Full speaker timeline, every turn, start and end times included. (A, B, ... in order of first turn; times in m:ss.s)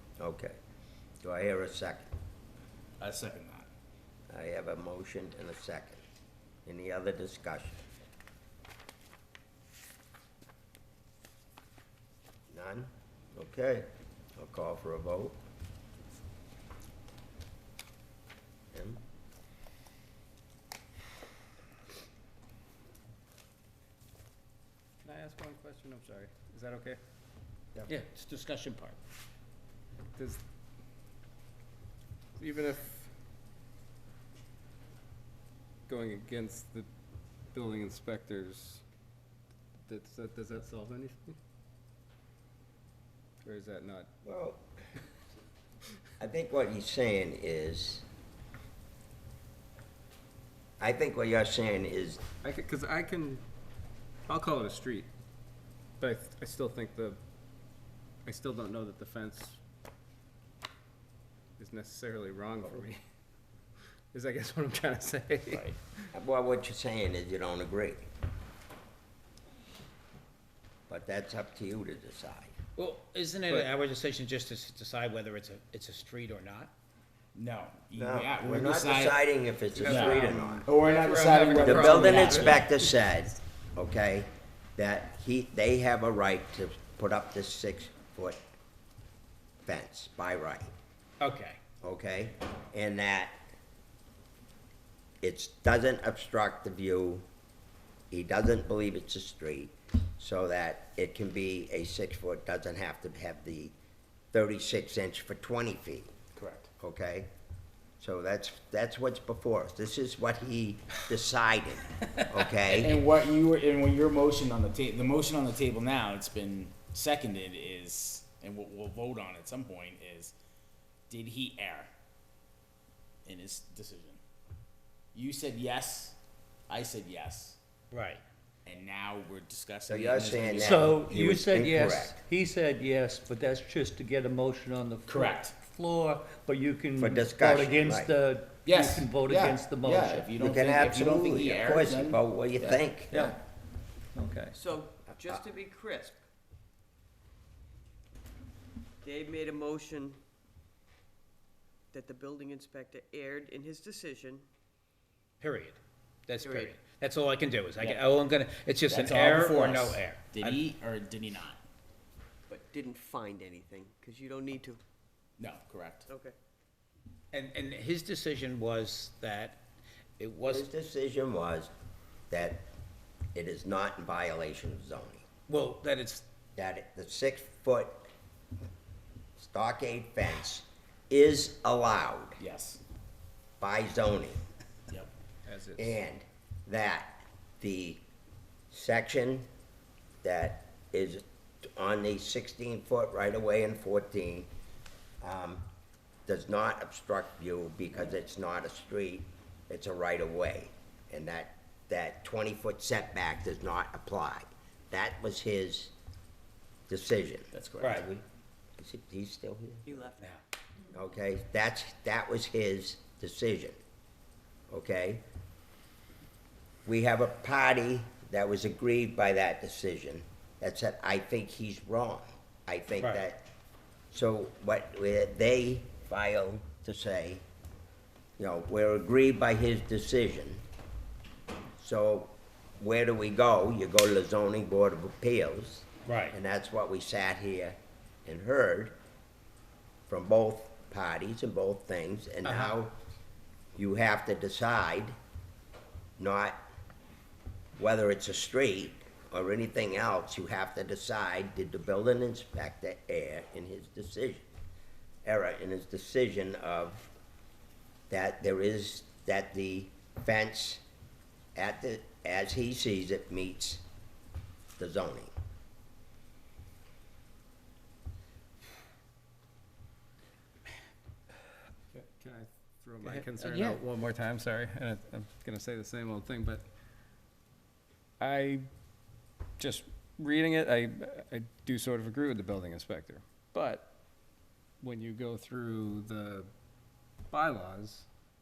0:00.2-0:00.6 A
0:01.2-0:02.1 A
0:03.0-0:03.7 B
0:04.3-0:06.0 A
0:06.6-0:07.8 A
0:12.5-0:15.4 A
0:18.7-0:19.0 A
0:25.0-0:27.0 C
0:27.9-0:29.0 D
0:30.2-0:30.4 C
0:32.4-0:33.1 C
0:35.9-0:36.9 C
0:37.5-0:38.8 C
0:39.8-0:41.4 C
0:43.4-0:44.1 C
0:44.2-0:44.6 A
0:46.2-0:48.0 A
0:50.8-0:52.2 A
0:52.4-0:53.4 C
0:54.3-0:55.1 C
0:56.0-0:57.2 C
0:58.2-0:59.6 C
1:01.6-1:03.0 C
1:04.1-1:06.1 C
1:05.5-1:05.8 B
1:06.1-1:08.0 A
1:10.9-1:12.5 A
1:12.8-1:16.7 D
1:17.3-1:19.2 B
1:18.0-1:20.7 A
1:19.8-1:22.7 B
1:20.9-1:22.5 E
1:21.4-1:21.8 C
1:21.6-1:28.4 A
1:29.6-1:30.7 A
1:31.2-1:31.6 D
1:31.8-1:33.4 A
1:35.2-1:37.2 A
1:38.1-1:43.7 A
1:44.3-1:46.1 A
1:46.4-1:46.7 B
1:46.8-1:47.3 A
1:48.0-1:53.0 A
1:52.7-2:00.3 B
2:01.1-2:01.9 B
2:03.2-2:04.2 B
2:05.1-2:06.2 B
2:06.7-2:07.6 B
2:07.9-2:08.2 D
2:08.6-2:11.0 B
2:09.9-2:12.2 A
2:10.6-2:20.4 E
2:15.0-2:15.6 B
2:17.0-2:18.1 A
2:18.6-2:23.3 B
2:20.4-2:23.2 A
2:24.5-2:26.2 F
2:29.0-2:30.2 F
2:31.9-2:34.5 F
2:35.4-2:40.6 D
2:36.4-2:36.7 F
2:38.9-2:41.6 B
2:42.5-2:44.8 F
2:45.4-2:46.1 B
2:46.1-2:46.3 F
2:47.3-2:49.6 D
2:50.2-2:50.7 D
2:50.5-2:51.7 A
2:52.3-2:52.7 A
2:53.3-2:55.2 A
2:55.5-2:56.2 D
2:56.6-2:58.0 A
2:59.4-3:02.4 A
3:02.4-3:02.8 B
3:03.6-3:04.4 A
3:05.4-3:06.0 C
3:05.8-3:08.0 A
3:08.7-3:09.5 A
3:10.2-3:14.5 A
3:15.2-3:15.6 A
3:16.2-3:25.9 A
3:26.9-3:27.5 A
3:27.5-3:28.1 B
3:27.8-3:28.1 D
3:28.8-3:30.0 A
3:29.9-3:30.2 F
3:30.9-3:33.8 A
3:34.7-3:35.2 A
3:36.8-3:43.5 A
3:44.1-3:47.4 A
3:48.4-3:50.6 A
3:51.8-3:58.9 A
3:56.1-3:56.3 D
4:00.1-4:03.0 A
4:02.4-4:02.7 D
4:03.8-4:05.1 A
4:06.2-4:06.6 A
4:07.8-4:14.4 A
4:15.2-4:17.1 A
4:18.1-4:20.8 A
4:21.5-4:23.8 A
4:24.8-4:25.3 A
4:31.9-4:36.6 C
4:33.0-4:33.8 D
4:38.2-4:38.6 C
4:39.6-4:43.9 C
4:44.8-4:46.5 C
4:47.3-4:48.1 C